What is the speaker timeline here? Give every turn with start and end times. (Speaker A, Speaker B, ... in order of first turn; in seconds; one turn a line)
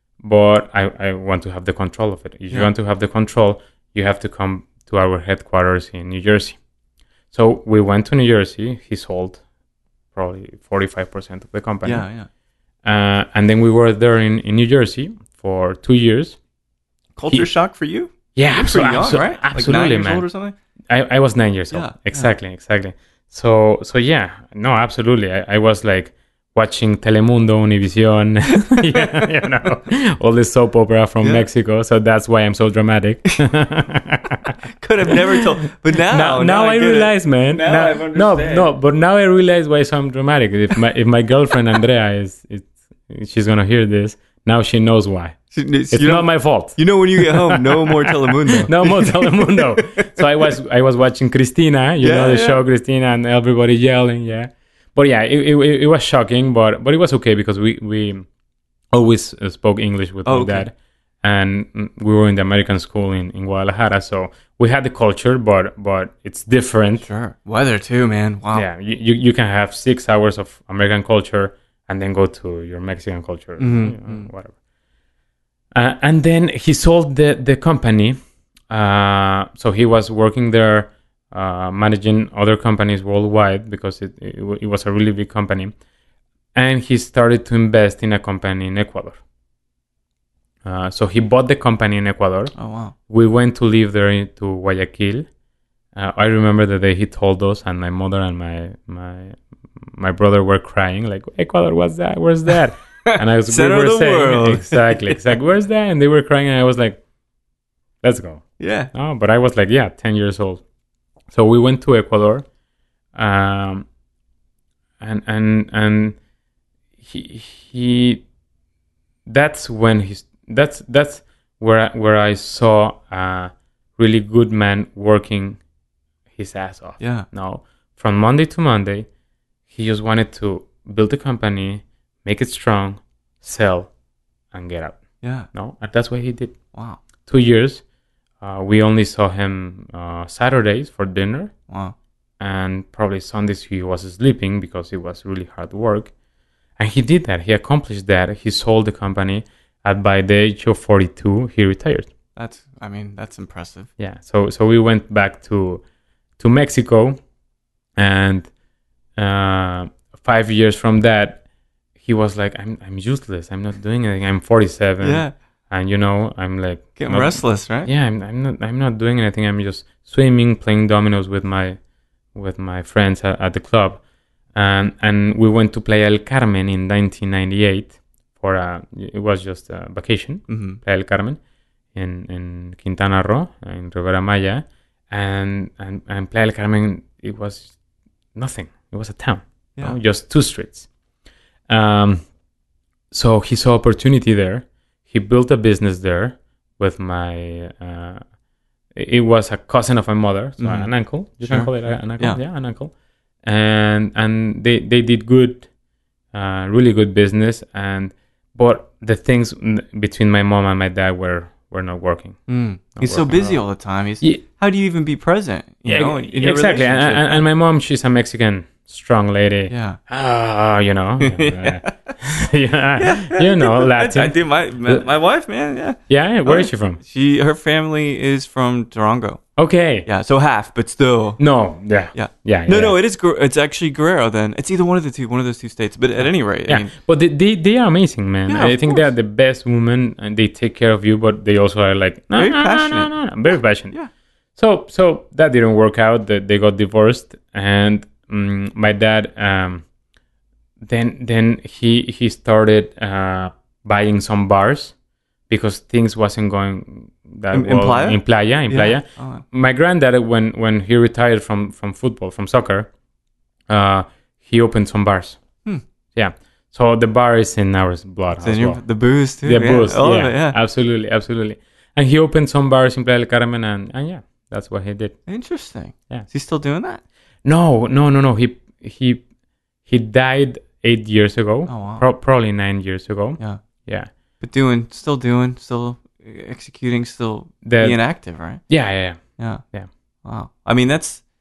Speaker A: 0.2-6.6
Speaker A: 7.3-9.4
Speaker A: 10.1-12.1
Speaker B: 11.8-12.3
Speaker A: 12.8-16.4
Speaker B: 17.1-20.6
Speaker A: 18.3-20.2
Speaker A: 20.9-34.5
Speaker B: 21.7-22.3
Speaker B: 28.6-29.2
Speaker B: 31.2-31.5
Speaker B: 34.7-38.7
Speaker A: 35.1-35.4
Speaker A: 36.0-45.4
Speaker B: 45.5-50.1
Speaker A: 45.9-58.3
Speaker B: 52.0-52.6
Speaker A: 58.9-67.0
Speaker B: 60.2-60.7
Speaker B: 67.0-68.7
Speaker A: 68.5-74.5
Speaker B: 73.6-74.3
Speaker A: 75.7-78.2
Speaker A: 78.7-85.7
Speaker A: 86.5-89.2
Speaker A: 90.6-92.5
Speaker B: 92.5-92.9
Speaker A: 93.1-95.2
Speaker A: 95.9-107.0
Speaker B: 103.0-105.2
Speaker A: 108.0-110.6
Speaker B: 108.6-108.9
Speaker A: 111.3-112.5
Speaker A: 113.1-113.9
Speaker A: 115.0-116.2
Speaker A: 117.0-118.2
Speaker A: 119.3-125.6
Speaker A: 126.4-129.1
Speaker B: 127.0-127.3
Speaker A: 129.7-133.9
Speaker A: 134.5-135.0
Speaker B: 135.2-135.5
Speaker A: 135.5-136.6
Speaker B: 136.7-137.0
Speaker A: 137.2-137.8
Speaker A: 138.4-141.5
Speaker B: 141.7-141.9
Speaker A: 142.4-146.1
Speaker A: 146.8-152.1
Speaker B: 152.3-153.9
Speaker A: 154.0-155.8
Speaker A: 156.4-157.2
Speaker A: 157.9-158.5
Speaker A: 159.2-161.4
Speaker A: 162.0-171.8
Speaker B: 165.0-165.3
Speaker B: 167.0-167.9
Speaker A: 172.3-174.0
Speaker A: 174.5-181.4
Speaker B: 180.5-180.8
Speaker A: 181.9-187.8
Speaker A: 188.3-190.9
Speaker A: 191.7-192.2
Speaker A: 193.1-198.2
Speaker A: 198.9-202.9
Speaker B: 200.6-200.9
Speaker B: 201.4-202.4
Speaker A: 203.4-205.7
Speaker A: 206.3-212.4
Speaker B: 212.5-217.4
Speaker A: 213.0-213.6
Speaker A: 215.8-225.0
Speaker B: 219.7-220.0
Speaker B: 221.2-222.2
Speaker B: 223.0-229.4
Speaker A: 226.1-227.0
Speaker A: 229.6-230.1
Speaker B: 230.1-231.4
Speaker A: 231.4-232.9
Speaker B: 232.1-236.9
Speaker A: 236.7-243.9
Speaker B: 238.5-239.1
Speaker B: 242.3-243.2
Speaker A: 244.6-249.8
Speaker A: 250.8-254.9
Speaker A: 255.5-262.9
Speaker B: 257.5-259.4
Speaker A: 263.7-265.4
Speaker A: 266.1-268.8
Speaker B: 268.4-270.6
Speaker A: 269.4-275.2
Speaker B: 275.3-277.0
Speaker A: 277.4-279.2
Speaker A: 279.9-284.1
Speaker B: 281.7-282.1
Speaker B: 284.4-288.6
Speaker A: 287.6-288.0
Speaker A: 288.7-289.9
Speaker B: 289.4-289.6
Speaker B: 290.2-291.2